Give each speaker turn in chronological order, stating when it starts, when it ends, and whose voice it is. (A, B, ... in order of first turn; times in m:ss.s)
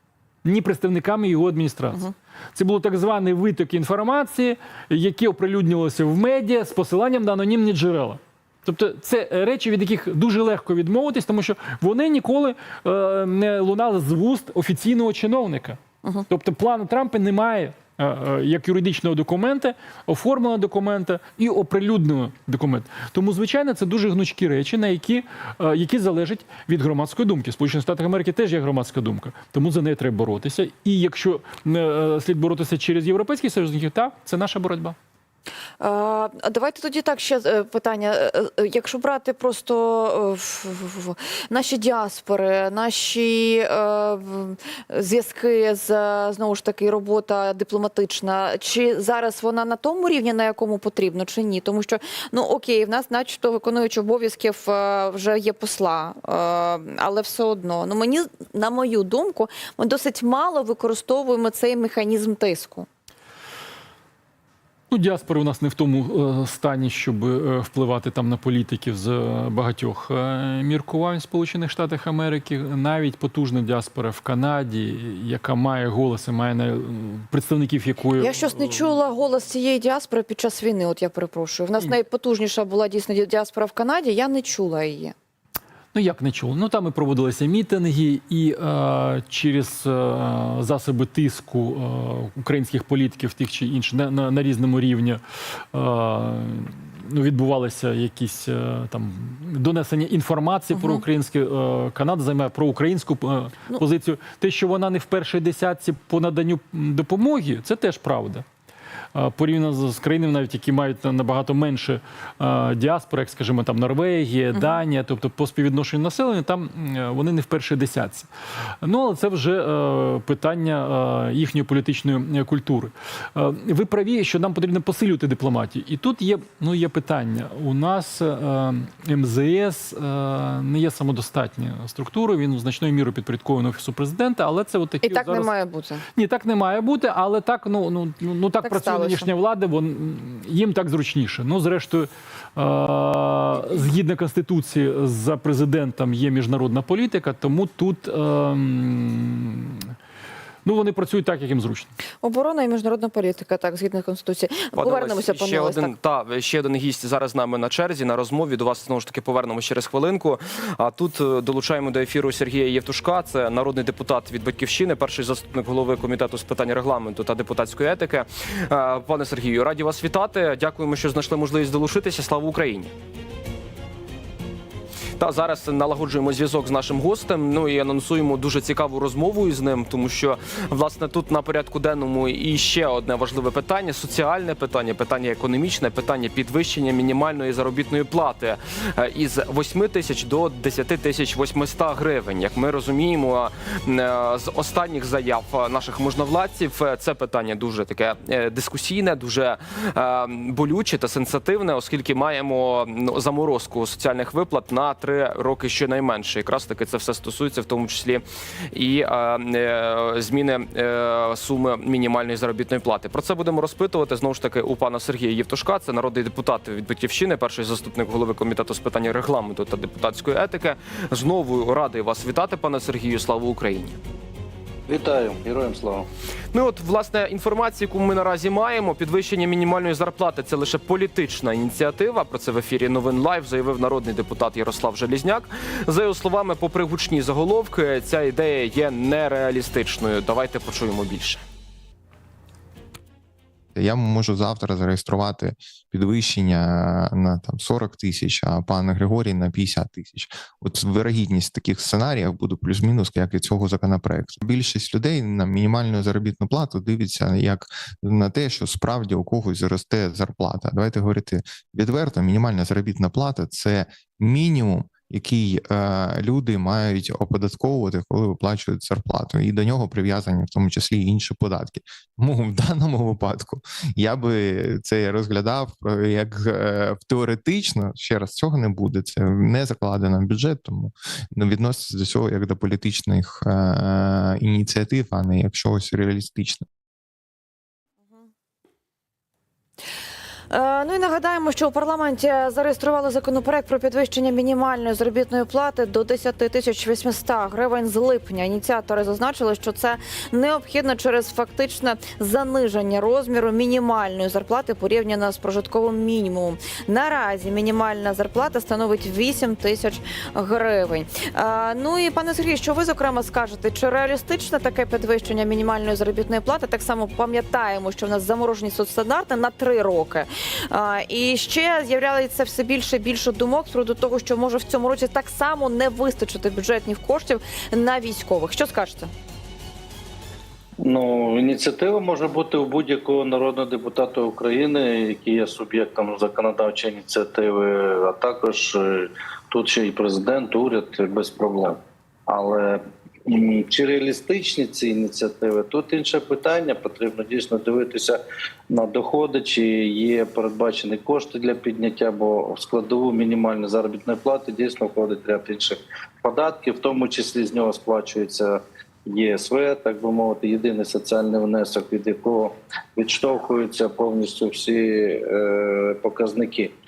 0:00.4-0:35.0 A
0:35.8-1:02.9 B
1:04.9-1:18.9 A
1:18.2-1:25.1 B
1:25.9-1:48.4 A
1:40.7-1:41.0 B
1:49.1-1:58.3 A
1:58.8-2:15.5 A
2:15.0-2:16.0 B
2:16.1-2:29.8 A
2:18.6-2:19.3 B
2:30.6-2:31.9 A
2:32.2-2:35.9 B
2:34.8-2:52.9 C
2:55.2-3:44.0 C
3:44.9-3:46.0 D
3:46.5-4:01.4 C
4:03.7-4:46.6 E
4:50.5-5:29.1 B
5:30.8-6:06.7 D